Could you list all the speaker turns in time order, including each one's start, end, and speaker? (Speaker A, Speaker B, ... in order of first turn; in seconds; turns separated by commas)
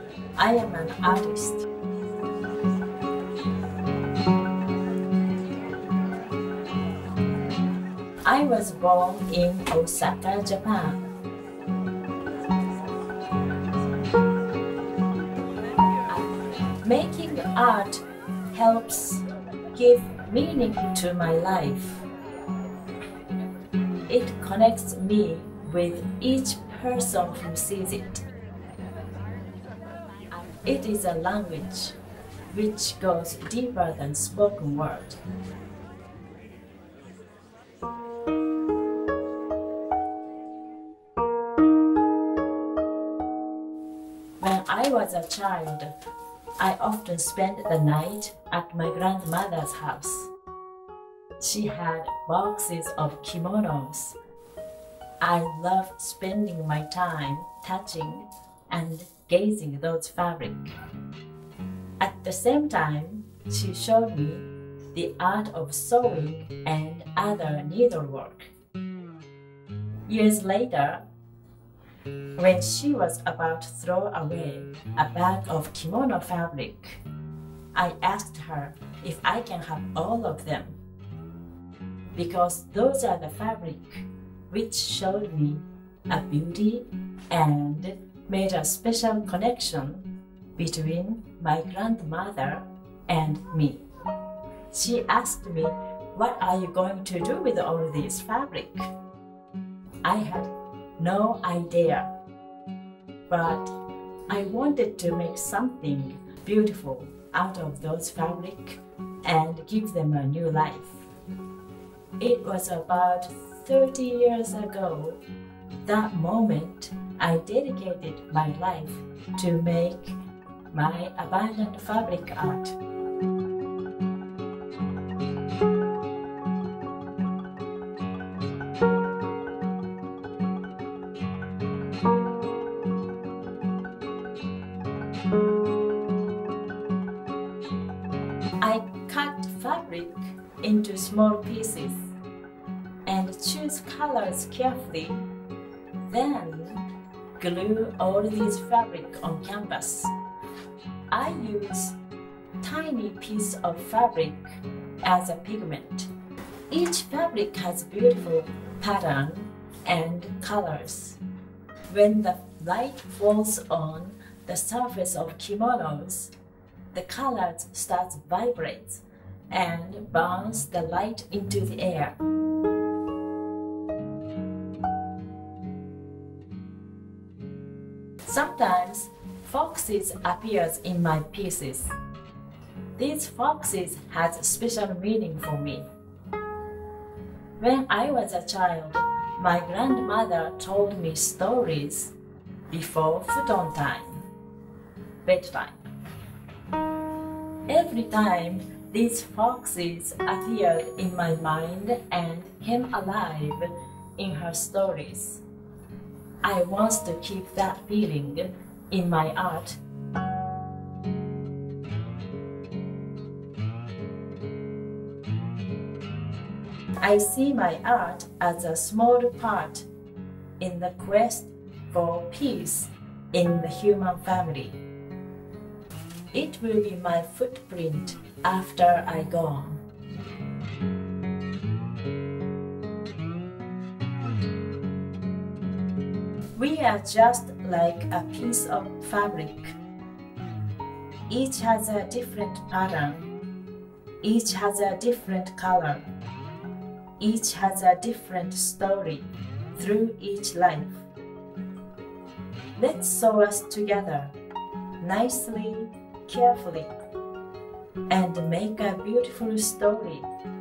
Speaker A: 0.3-1.7, Speaker A: 8.2-11.0, Speaker A: 16.8-22.0, Speaker A: 24.1-28.2, Speaker A: 30.6-31.9, Speaker A: 32.5-35.2, Speaker A: 44.4-45.9, Speaker A: 46.6-50.3, Speaker A: 51.4-54.1, Speaker A: 55.2-60.7, Speaker A: 62.0-68.5, Speaker A: 70.1-71.0, Speaker A: 72.4-77.0, Speaker A: 77.7-80.8, Speaker A: 82.1-93.8, Speaker A: 94.7-98.9, Speaker A: 100.0-102.1, Speaker A: 103.3-103.7, Speaker A: 104.3-111.1, Speaker A: 112.2-115.2, Speaker A: 115.8-120.2, Speaker A: 120.7-122.8, Speaker A: 138.6-142.1, Speaker A: 143.1-145.3, Speaker A: 146.1-146.9, Speaker A: 147.4-150.1, Speaker A: 151.1-152.0, Speaker A: 152.6-156.1, Speaker A: 156.7-161.2, Speaker A: 161.9-166.3, Speaker A: 166.9-172.2, Speaker A: 178.2-181.9, Speaker A: 183.0-185.8, Speaker A: 187.6-192.1, Speaker A: 192.7-194.2, Speaker A: 195.2-195.8, Speaker A: 197.7-205.4, Speaker A: 206.4-209.8, Speaker A: 217.0-219.9, Speaker A: 220.6-224.8, Speaker A: 226.3-229.8, Speaker A: 236.6-239.8, Speaker A: 241.3-243.3, Speaker A: 244.2-246.0, Speaker A: 247.2-251.0, Speaker A: 252.7-254.3, Speaker A: 255.0-256.9, Speaker A: 258.1-260.3